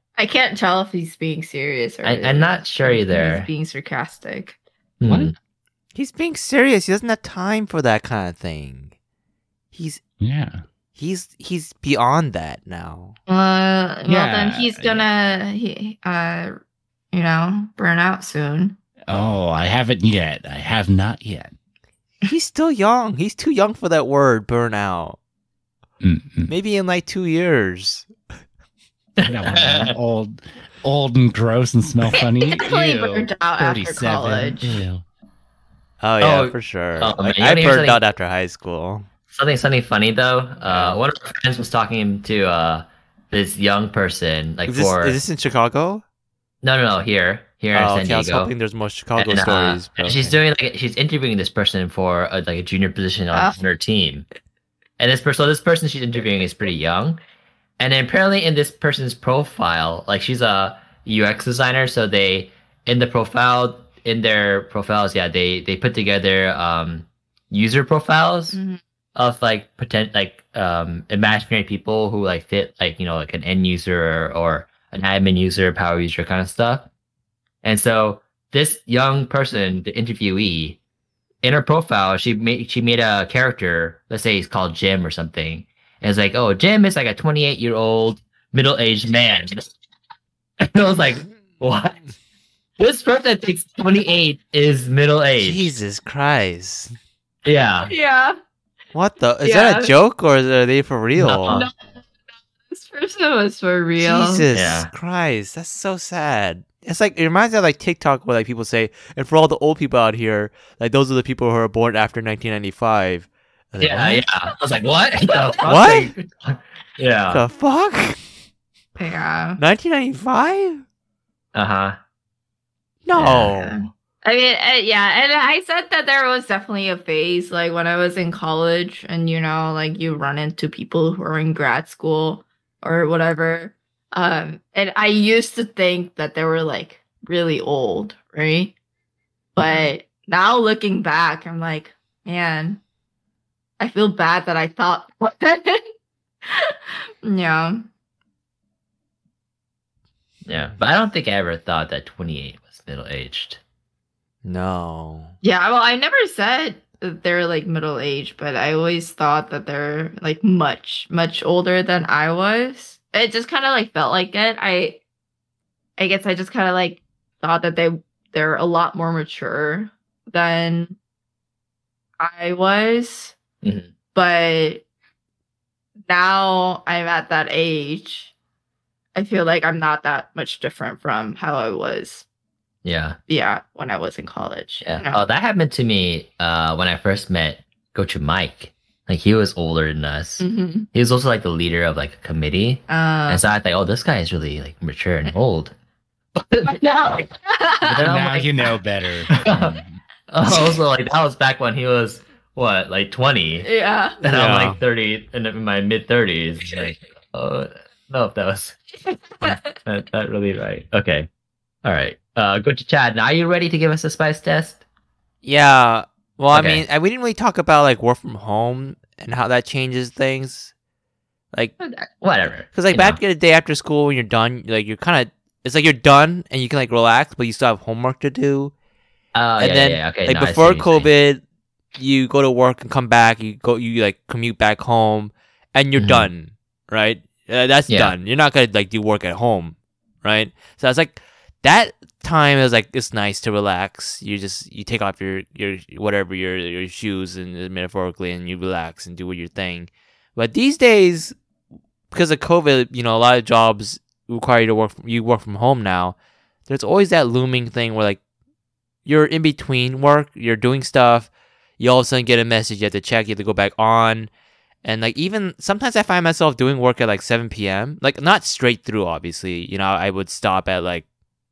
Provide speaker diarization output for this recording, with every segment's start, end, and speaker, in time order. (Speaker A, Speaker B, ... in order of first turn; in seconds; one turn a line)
Speaker A: 0.2-4.6
Speaker B: 2.0-3.5
Speaker B: 5.0-5.3
Speaker C: 5.1-5.3
Speaker D: 6.0-8.9
Speaker D: 9.7-10.0
Speaker C: 10.2-10.6
Speaker D: 11.0-13.2
Speaker A: 13.3-16.6
Speaker C: 14.1-15.1
Speaker A: 17.1-18.8
Speaker C: 19.1-21.5
Speaker D: 22.2-25.2
Speaker C: 26.0-26.5
Speaker D: 26.5-28.1
Speaker B: 29.2-29.9
Speaker C: 29.2-35.0
Speaker A: 32.2-34.8
Speaker D: 36.0-39.1
Speaker B: 36.2-38.0
Speaker B: 39.3-45.2
Speaker D: 40.6-41.0
Speaker D: 44.7-46.0
Speaker B: 46.6-48.5
Speaker D: 47.7-50.4
Speaker B: 49.2-54.3
Speaker A: 53.3-53.6
Speaker B: 55.0-57.2
Speaker B: 57.8-68.6
Speaker A: 68.5-68.8
Speaker B: 69.2-76.9
Speaker B: 77.6-80.8
Speaker B: 81.4-89.7
Speaker B: 90.6-92.1
Speaker B: 92.8-95.7
Speaker D: 95.4-97.0
Speaker B: 97.5-97.9
Speaker A: 97.9-98.4
Speaker D: 98.9-101.6
Speaker A: 99.4-99.9
Speaker B: 101.2-101.7
Speaker A: 101.5-101.7
Speaker A: 102.7-104.5
Speaker D: 104.0-114.2
Speaker B: 104.5-104.9
Speaker B: 113.8-117.4
Speaker A: 115.3-115.6
Speaker D: 115.6-116.1
Speaker D: 117.3-118.2
Speaker A: 119.0-119.6
Speaker D: 119.6-120.8
Speaker B: 121.5-122.0
Speaker D: 123.1-123.8
Speaker B: 123.1-123.6
Speaker A: 123.5-138.8
Speaker A: 139.6-142.8
Speaker A: 143.8-145.8
Speaker A: 146.5-147.9
Speaker B: 150.5-153.6
Speaker D: 154.4-155.3
Speaker A: 155.4-165.0
Speaker A: 166.0-171.0
Speaker A: 172.2-173.4
Speaker B: 173.6-173.9
Speaker A: 174.2-174.8
Speaker A: 176.1-178.3
Speaker A: 179.2-182.2
Speaker B: 182.8-183.2
Speaker A: 183.3-185.2
Speaker B: 184.8-195.7
Speaker A: 190.4-190.9
Speaker A: 192.9-193.4
Speaker B: 196.4-197.2
Speaker A: 196.7-198.0
Speaker B: 197.8-198.6
Speaker C: 197.9-200.0
Speaker B: 199.3-199.8
Speaker B: 200.3-203.7
Speaker A: 200.5-200.8
Speaker A: 203.6-204.2
Speaker B: 204.2-208.8
Speaker D: 204.2-204.8
Speaker B: 209.4-211.3
Speaker B: 211.8-214.8
Speaker D: 215.4-220.7
Speaker B: 216.5-216.8
Speaker B: 221.8-223.2
Speaker D: 222.7-228.7
Speaker B: 229.3-231.1
Speaker D: 229.6-231.4
Speaker D: 232.0-251.4
Speaker B: 236.0-236.3
Speaker B: 237.9-238.1
Speaker D: 252.1-256.2
Speaker D: 256.7-258.2
Speaker D: 259.1-264.3
Speaker D: 264.8-271.1